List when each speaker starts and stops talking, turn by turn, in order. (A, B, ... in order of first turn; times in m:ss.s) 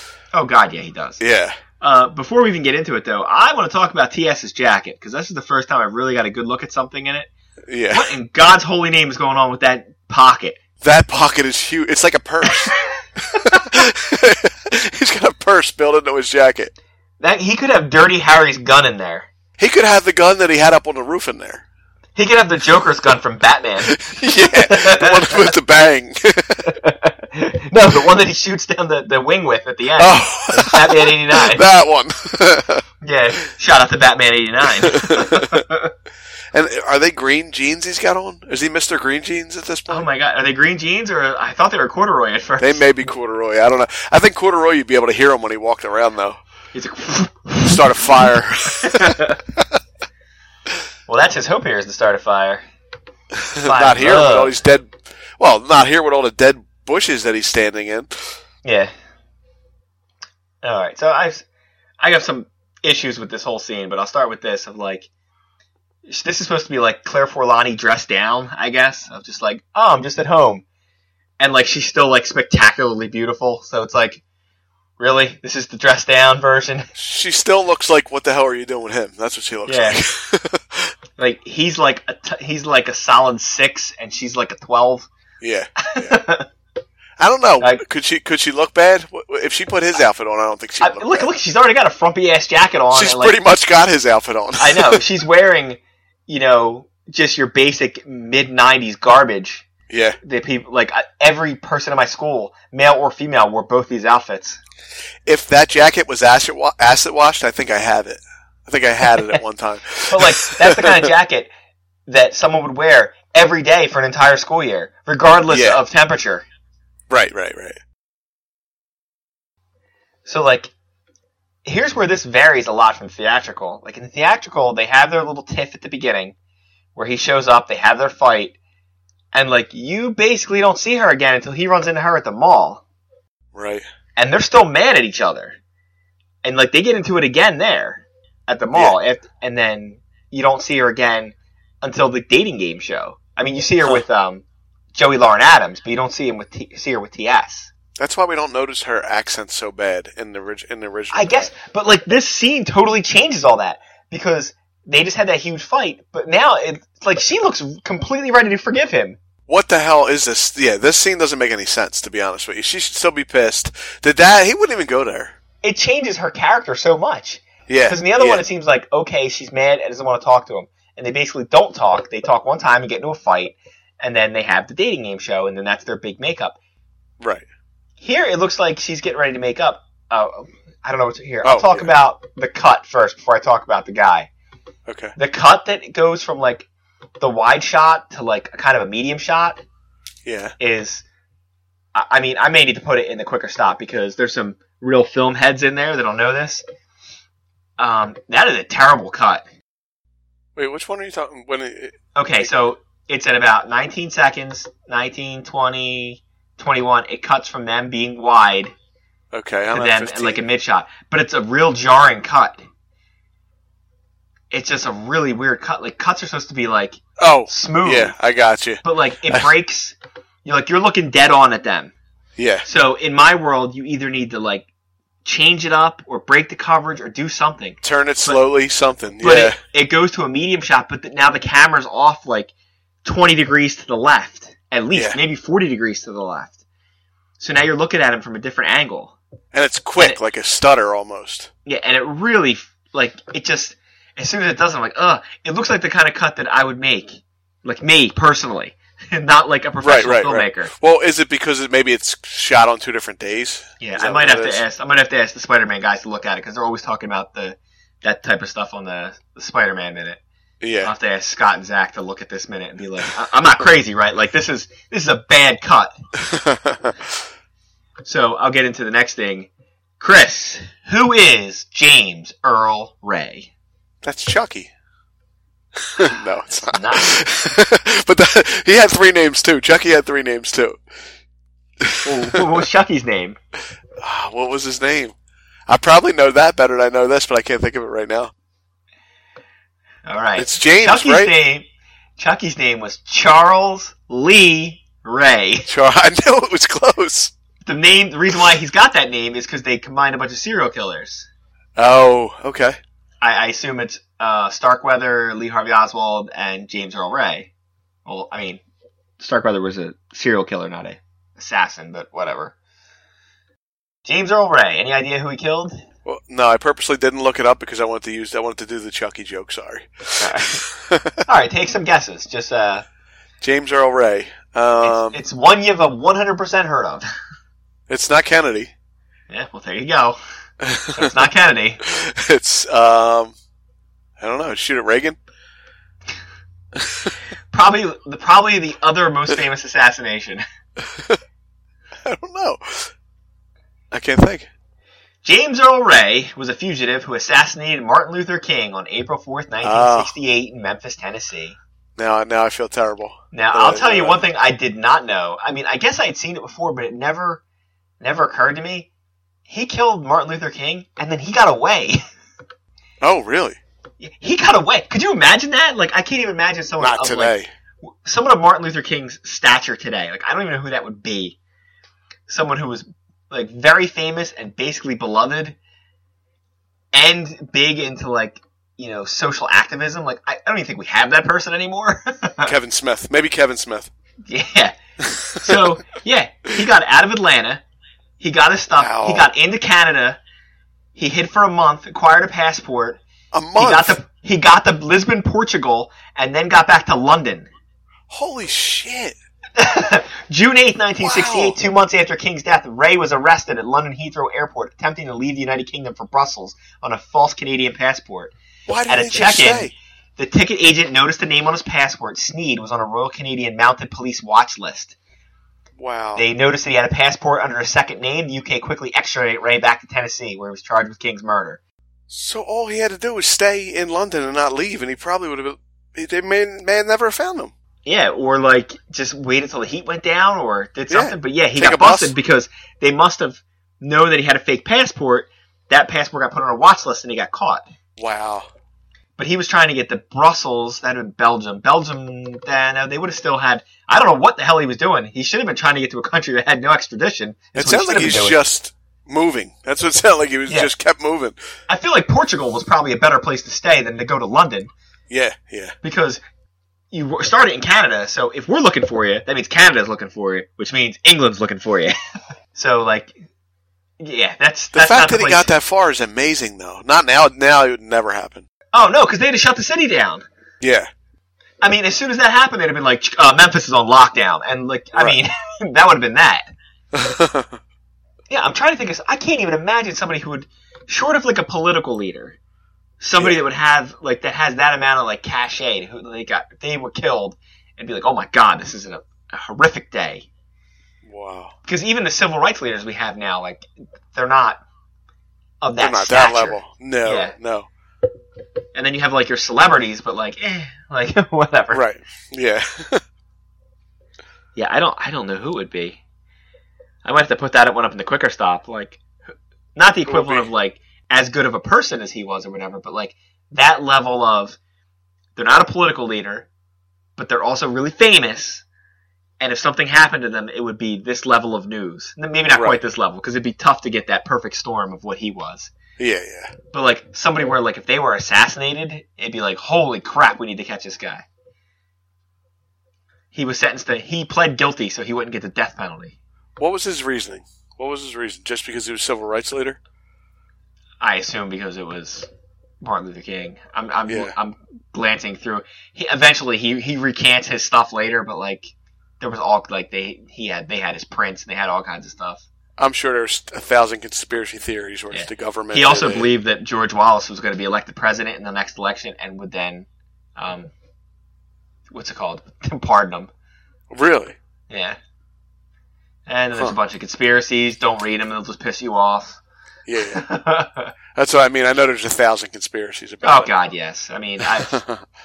0:00.3-0:01.2 A
0:01.2-0:01.6 B
0:01.8-0:07.3 A
0:07.7-0:08.1 B
0:07.9-0:10.6 A
0:10.8-0:16.7 B
0:17.2-0:19.3 A
0:19.6-0:21.6 B
0:22.2-0:23.9 A
0:23.8-0:26.7 B
0:24.5-0:25.5 A
0:26.8-0:31.6 A
0:30.0-0:32.8 B
0:33.0-0:35.9 A
0:34.9-0:35.6 B
0:36.5-0:40.1 B
0:39.9-0:42.8 A
0:42.6-0:46.4 B
0:46.7-0:47.9 A
0:47.6-0:49.3 B
0:48.8-0:49.4 A
0:51.1-0:52.6 A
0:53.6-0:58.1 B
0:53.6-0:54.6 A
0:58.6-0:58.9 A
1:00.6-1:01.4 A
1:02.0-1:05.1 A
1:06.1-1:10.6 A
1:11.4-1:14.2 A
1:15.0-1:16.9 A
1:17.0-1:20.9 B
1:19.7-1:20.0 A
1:21.2-1:25.1 A
1:25.4-1:26.2 B
1:25.8-1:26.5 A
1:27.2-1:31.3 B
1:30.8-1:33.4 A
1:32.9-1:35.0 B
1:34.6-1:39.7 A
1:39.9-1:40.2 B
1:40.2-1:44.6 A
1:45.3-1:50.9 B
1:50.1-1:51.5 A
1:52.1-1:56.4 A
1:55.5-1:55.8 B
1:57.1-1:57.8 B
2:00.3-2:00.7 A
2:01.6-2:06.4 A
2:07.0-2:08.6 A
2:09.3-2:12.8 A
2:13.5-2:13.8 B
2:14.2-2:15.6 A
2:16.4-2:24.4 A
2:24.9-2:27.7 A
2:28.0-2:31.5 B
2:31.1-2:39.2 A
2:39.5-2:45.4 B
2:45.6-2:56.6 A
2:47.7-2:48.4 B
2:57.2-2:57.5 B
2:58.0-3:04.3 A
3:01.4-3:01.9 B
3:04.9-3:05.2 B
3:05.2-3:06.7 A
3:07.2-3:09.6 A
3:10.2-3:10.5 B
3:10.6-3:11.0 A
3:12.0-3:16.6 A
3:17.8-3:19.5 A
3:20.6-3:22.0 B
3:22.2-3:28.7 A
3:29.3-3:30.5 B
3:29.7-3:32.6 A
3:34.5-3:38.1 A
3:37.2-3:39.5 B
3:38.8-3:41.9 A
3:42.4-3:42.7 B
3:42.6-3:44.7 A
3:45.2-3:48.4 A
3:47.8-3:49.6 B
3:49.2-3:52.5 A
3:53.0-3:56.6 A
3:54.9-3:55.2 B
3:57.4-3:59.2 A
3:59.5-4:01.5 B
4:01.6-4:10.7 A
4:09.8-4:14.6 B
4:13.8-4:20.2 A
4:20.6-4:20.9 B
4:20.8-4:26.0 A
4:28.0-4:29.5 A
4:30.0-4:33.5 A
4:34.0-4:34.7 B
4:36.0-4:40.8 B
4:36.0-4:37.2 A
4:41.8-4:42.4 B
4:42.0-4:43.4 A
4:44.0-4:45.2 B
4:45.7-4:48.3 B
4:50.1-4:55.7 A
4:50.4-4:51.3 B
4:55.7-4:57.3 B
4:57.6-5:01.3 A
5:01.8-5:02.8 B
5:03.2-5:07.5 A
5:08.1-5:08.6 A
5:09.2-5:12.6 A
5:14.0-5:15.8 A
5:16.0-5:21.1 B
5:20.2-5:20.6 A
5:21.3-5:22.8 A
5:23.4-5:25.2 B
5:24.8-5:27.0 A
5:27.9-5:28.7 B
5:29.3-5:30.2 A
5:30.6-5:31.0 B
5:31.0-5:31.8 A
5:31.8-5:33.3 B
5:34.2-5:35.2 B
5:37.5-5:40.4 A
5:42.0-5:42.9 B
5:43.9-5:44.5 B
5:45.2-5:51.6 A
5:49.6-5:50.1 B
5:52.0-5:54.2 B
5:53.3-5:57.4 A
5:58.0-5:58.9 A
5:59.5-6:02.0 A
6:03.0-6:03.6 B
6:04.0-6:07.4 A
6:06.8-6:07.5 B
6:08.0-6:11.4 A
6:12.3-6:15.6 A
6:16.9-6:22.5 A
6:22.4-6:23.9 B
6:24.3-6:24.7 A
6:25.4-6:27.6 A
6:28.2-6:30.2 A
6:28.8-6:29.3 B
6:31.0-6:33.0 A
6:33.3-6:34.0 B
6:33.6-6:37.5 A
6:38.1-6:39.2 B
6:39.6-6:48.3 A
6:41.0-6:41.6 B
6:48.7-6:49.7 B
6:48.9-6:55.0 A
6:55.8-6:56.2 B
6:56.2-7:01.6 A
7:02.1-7:07.5 B
7:07.8-7:17.7 A
7:10.9-7:12.1 B
7:18.0-7:18.5 B
7:19.2-7:28.4 A
7:27.5-7:31.4 B
7:31.7-7:34.7 A
7:35.1-7:35.7 B
7:35.8-7:36.2 A
7:36.9-7:41.9 A
7:42.5-7:43.1 A
7:44.0-7:45.5 A
7:44.7-7:48.4 B
7:48.7-7:50.2 A
7:50.6-7:50.9 B
7:51.6-7:56.5 A
7:57.0-7:57.6 B
7:58.3-8:02.4 A
8:03.0-8:10.3 A
8:11.0-8:11.5 B
8:11.6-8:14.6 A
8:15.6-8:17.4 A
8:15.8-8:17.7 B
8:18.8-8:21.8 A
8:21.7-8:23.0 B
8:24.6-8:26.0 A
8:27.0-8:29.0 A
8:29.8-8:34.6 A
8:30.1-8:30.5 B
8:35.4-8:36.5 A
8:37.2-8:38.6 A
8:39.4-8:45.7 A
8:42.5-8:42.8 B
8:46.0-8:46.5 B
8:46.7-8:51.2 A
8:53.3-8:56.2 A
8:56.6-8:59.8 B
9:01.0-9:02.3 A
9:02.8-9:12.4 A
9:04.1-9:04.4 B
9:12.8-9:16.3 B
9:15.1-9:20.7 A
9:21.9-9:23.3 A
9:23.9-9:24.4 B
9:24.7-9:25.0 A
9:26.3-9:29.4 A
9:29.9-9:30.3 B
9:30.1-9:30.9 A
9:31.2-9:33.5 B
9:33.2-9:34.8 A
9:34.4-9:35.0 B